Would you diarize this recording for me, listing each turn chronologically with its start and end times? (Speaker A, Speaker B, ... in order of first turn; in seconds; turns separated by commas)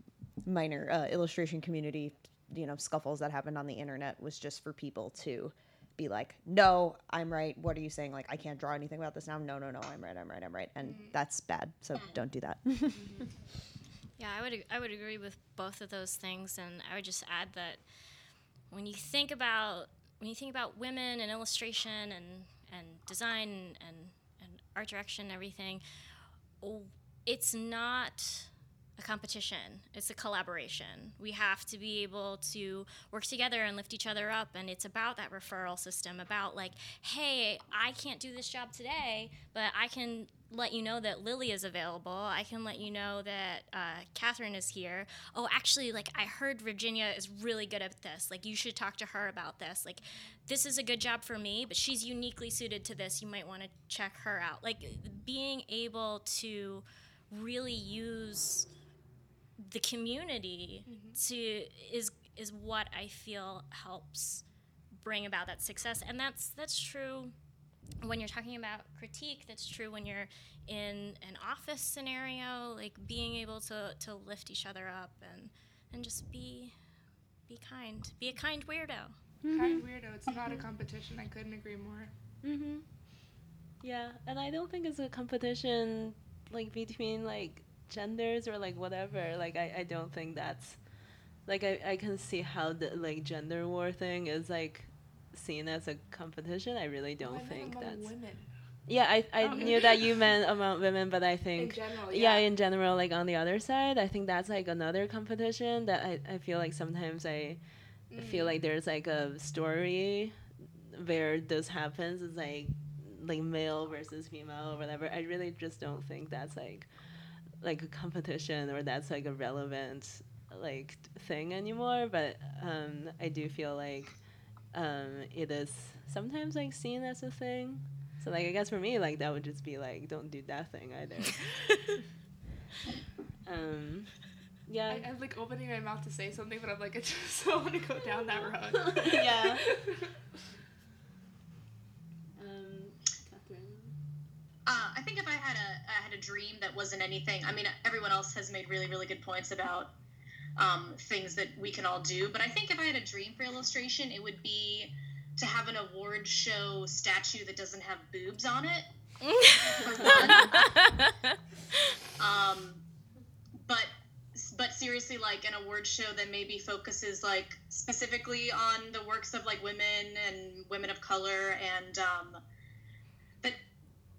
Speaker A: 0.4-13.1, Speaker B: 10.8-11.1, Speaker C: 11.9-12.2, Speaker D: 13.0-13.3, Speaker E: 14.2-17.8, Speaker E: 18.7-25.8, Speaker E: 26.6-58.7, Speaker E: 59.6-64.4, Speaker B: 60.9-61.2, Speaker E: 65.0-67.3, Speaker E: 68.0-76.7, Speaker E: 77.5-79.2, Speaker D: 79.4-80.6, Speaker B: 79.5-82.1, Speaker D: 82.4-82.8, Speaker D: 83.8-90.8, Speaker D: 91.5-98.1, Speaker B: 97.2-98.5, Speaker D: 98.9-107.6, Speaker B: 99.4-100.1, Speaker B: 101.5-102.5, Speaker B: 108.1-108.6, Speaker D: 108.1-110.4, Speaker D: 110.9-116.9, Speaker D: 117.6-124.2, Speaker D: 124.7-131.9, Speaker D: 133.4-134.1, Speaker D: 134.7-135.1, Speaker B: 134.9-140.1, Speaker D: 138.6-139.7, Speaker D: 142.4-143.9, Speaker C: 144.7-149.9, Speaker C: 150.6-158.9, Speaker E: 159.2-161.3, Speaker C: 159.8-160.6, Speaker D: 159.9-160.5, Speaker C: 162.2-162.8, Speaker C: 163.6-172.4